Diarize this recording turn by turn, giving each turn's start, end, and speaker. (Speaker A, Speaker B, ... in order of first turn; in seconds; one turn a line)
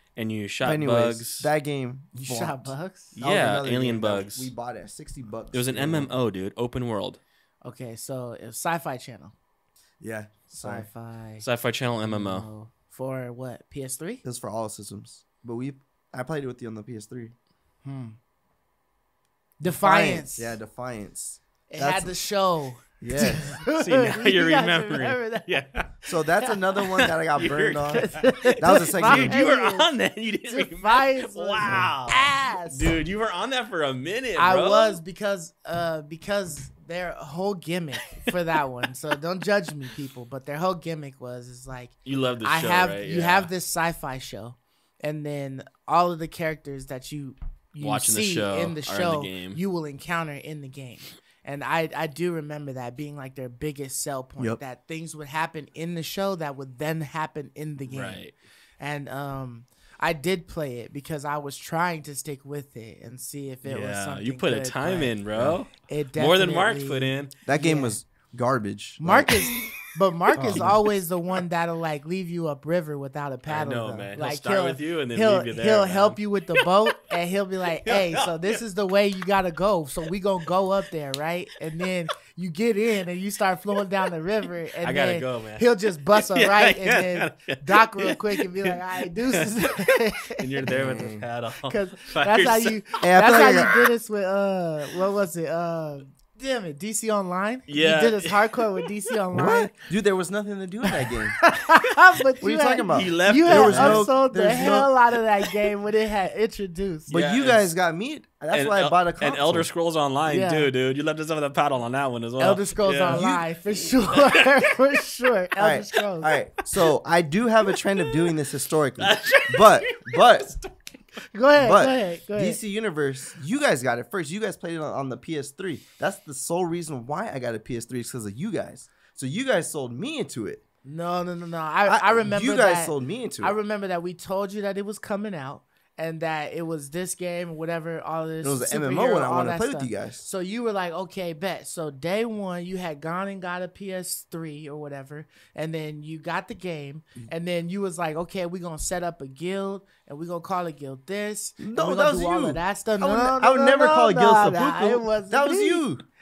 Speaker A: 0.2-1.5
Speaker B: 0.6-6.1
Speaker C: 2.1-3.2
Speaker A: 3.2-4.5
Speaker A: 5.5-7.2
Speaker C: 7.6-9.3
Speaker B: 10.0-10.9
Speaker C: 10.5-11.4
Speaker A: 11.4-12.5
Speaker C: 12.0-14.2
Speaker B: 14.2-17.4
Speaker C: 17.8-18.2
Speaker C: 19.6-20.6
Speaker B: 19.6-22.1
Speaker C: 21.7-25.6
Speaker B: 23.0-23.6
Speaker A: 23.7-26.0
Speaker B: 26.1-29.4
Speaker A: 26.8-35.0
Speaker C: 27.9-29.9
Speaker C: 30.5-33.0
Speaker B: 31.6-31.9
Speaker C: 34.4-58.2
Speaker A: 42.0-43.5
Speaker A: 47.8-49.6
Speaker A: 57.9-58.3
Speaker C: 58.8-65.2
Speaker A: 63.6-67.3
Speaker C: 65.7-68.0
Speaker B: 67.5-69.3
Speaker C: 69.0-90.5
Speaker A: 69.5-69.8
Speaker A: 70.3-70.8
Speaker B: 70.4-70.8
Speaker A: 73.5-77.0
Speaker A: 77.8-78.6
Speaker A: 84.8-92.8
Speaker B: 90.7-91.2
Speaker C: 91.6-99.7
Speaker B: 93.0-93.7
Speaker A: 97.7-98.9
Speaker B: 99.3-101.4
Speaker C: 100.9-107.1
Speaker B: 102.4-104.9
Speaker A: 102.9-104.1
Speaker A: 107.1-107.7
Speaker B: 107.1-109.7
Speaker A: 108.5-114.6
Speaker C: 110.3-110.7
Speaker C: 112.4-116.3
Speaker B: 113.1-113.5
Speaker B: 115.6-120.5
Speaker A: 117.7-118.5
Speaker A: 119.0-121.2
Speaker C: 121.3-122.6
Speaker B: 121.6-130.6
Speaker C: 130.8-155.8
Speaker B: 131.8-133.6
Speaker B: 138.4-140.3
Speaker B: 151.6-156.1